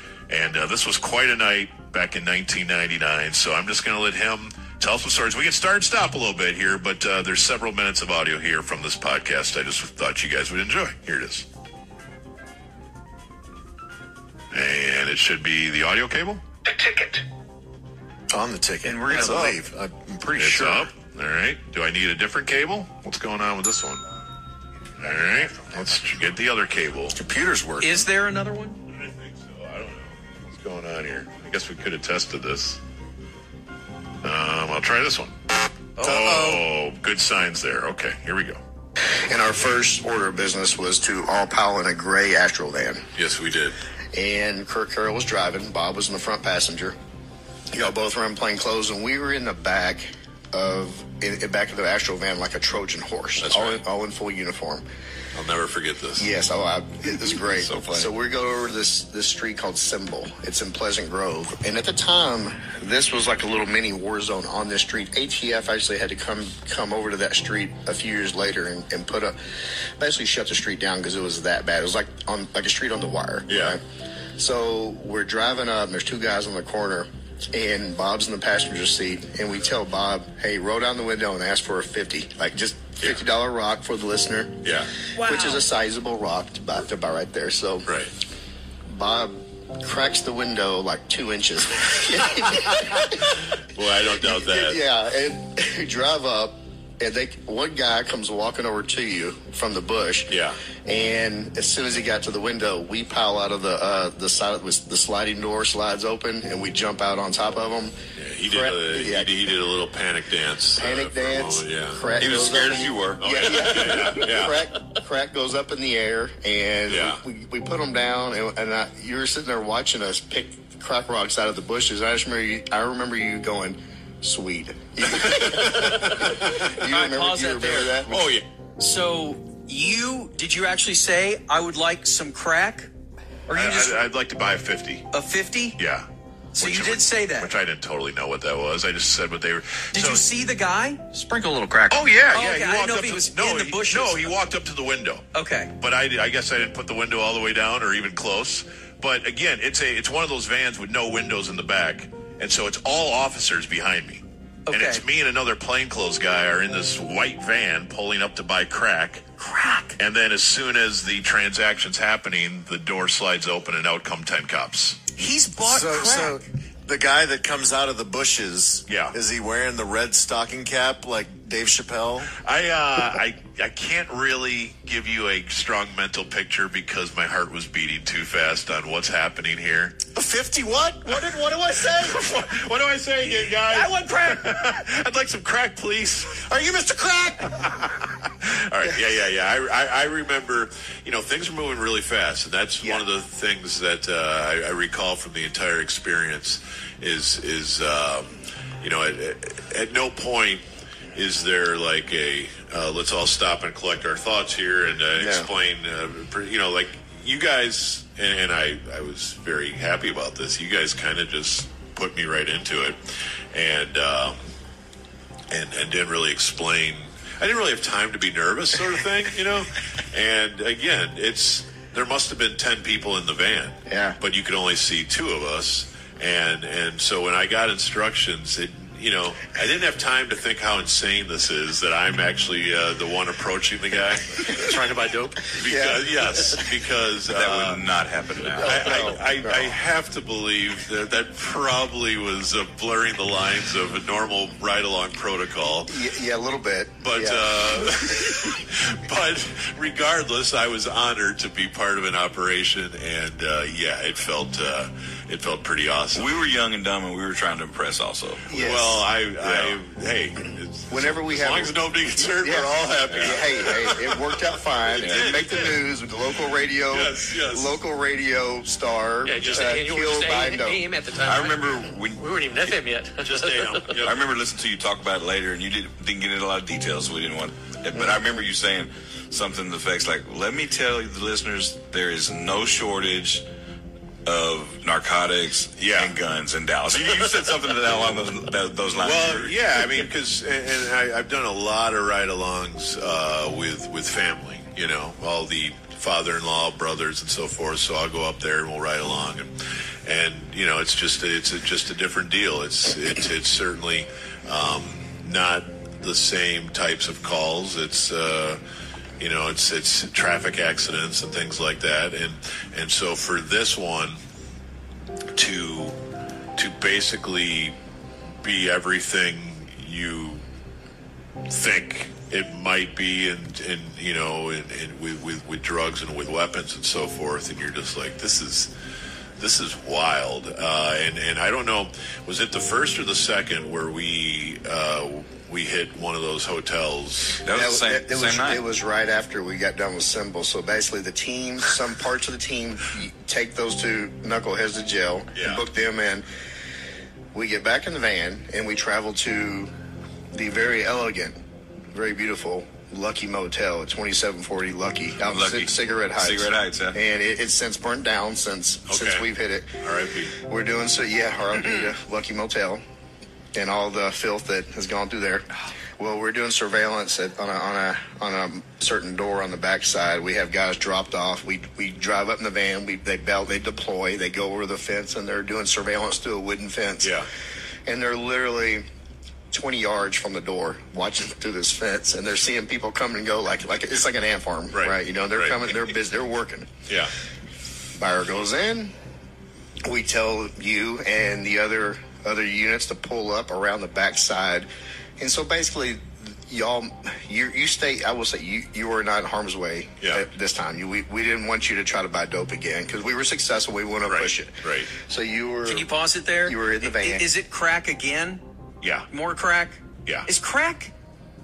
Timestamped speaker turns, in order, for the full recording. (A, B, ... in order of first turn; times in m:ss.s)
0:00.3-0:11.4 A
0:14.5-0:16.4 A
0:18.3-0:20.8 B
0:18.8-0:19.6 C
0:20.3-0:24.0 A
0:25.0-0:27.2 A
0:27.1-0:28.0 B
0:27.8-0:28.8 C
0:28.9-0:32.8 A
0:34.2-0:35.3 A
0:36.0-0:36.3 C
0:36.0-0:38.6 A
0:36.0-0:36.6 B
0:39.3-0:43.0 D
0:43.2-0:43.8 A
0:44.1-0:47.0 D
0:47.7-0:54.8 D
0:53.4-0:53.8 A
0:55.3-0:56.3 A
0:56.2-1:09.4 D
1:10.0-1:13.8 D
1:13.5-1:13.8 A
1:14.4-1:24.7 D
1:24.6-1:24.9 A
1:25.2-1:25.6 C
1:25.2-1:27.9 D
1:27.8-1:28.1 A
1:28.9-1:33.3 D
1:33.6-1:34.8 A
1:34.2-1:40.3 D
1:40.3-1:40.6 A
1:40.8-1:49.3 D
1:48.1-1:52.1 A
1:50.8-2:08.2 D
1:52.2-1:54.1 E
1:53.2-1:54.6 A
1:56.9-1:57.2 A
2:05.3-2:06.4 A
2:06.6-2:08.0 C
2:08.1-2:08.4 A
2:08.8-2:12.9 C
2:13.5-2:14.0 C
2:13.5-2:15.1 A
2:15.1-2:15.8 C
2:15.8-2:20.2 A
2:16.6-2:17.5 C
2:19.9-2:21.6 C
2:21.9-2:39.2 A
2:22.3-2:24.3 C
2:25.3-2:25.7 C
2:34.7-2:35.0 C
2:39.4-2:40.0 C
2:40.0-2:45.0 A
2:45.2-2:46.4 C
2:45.6-2:52.3 B
2:48.9-2:49.2 A
2:52.4-3:00.0 A
3:00.1-3:02.2 B
3:01.2-3:20.6 A
3:21.1-3:33.0 A
3:25.2-3:25.5 D
3:33.5-3:34.4 A
3:35.5-3:57.8 A
3:43.9-3:44.2 D
3:55.6-3:56.1 D
3:57.3-3:59.2 E
3:58.5-4:05.9 A
3:58.6-3:59.8 D
4:05.9-4:07.9 D
4:07.0-4:16.4 A
4:16.1-4:18.5 E
4:18.5-4:19.0 D
4:18.5-4:24.3 A
4:19.4-4:19.8 E
4:20.9-4:30.8 D
4:23.1-4:23.4 E
4:24.9-4:25.8 A
4:24.9-4:25.4 E
4:26.9-4:27.8 A
4:29.2-4:31.6 F
4:29.4-4:29.7 A
4:31.2-4:32.8 E
4:32.2-4:34.0 F
4:33.2-4:34.2 A
4:33.4-4:43.4 E
4:44.2-4:49.6 E
4:45.8-4:46.2 A
4:49.0-4:59.5 A
5:00.0-5:08.6 A
5:09.2-5:14.2 A
5:15.3-5:16.0 A
5:16.6-5:17.7 A
5:18.4-5:20.4 A
5:21.5-5:28.7 A
5:29.4-5:37.4 A
5:37.4-5:38.6 E
5:37.5-5:46.2 D
5:45.3-5:45.6 A
5:47.3-5:49.7 D
5:50.3-5:51.4 D
5:51.9-5:59.7 D
5:55.2-5:57.0 E
5:58.9-5:59.3 A
5:59.8-6:00.3 A
6:00.4-6:02.8 D
6:03.5-6:17.2 D
6:17.0-6:17.3 A
6:17.8-6:18.8 D
6:19.5-6:26.7 D
6:24.7-6:25.9 A
6:26.9-6:27.1 A
6:27.9-6:28.9 D
6:29.8-6:45.9 D
6:40.0-6:40.2 A
6:44.0-6:44.9 A
6:45.6-6:48.4 C
6:46.4-6:47.3 D
6:48.8-6:49.1 A
6:49.1-6:50.9 C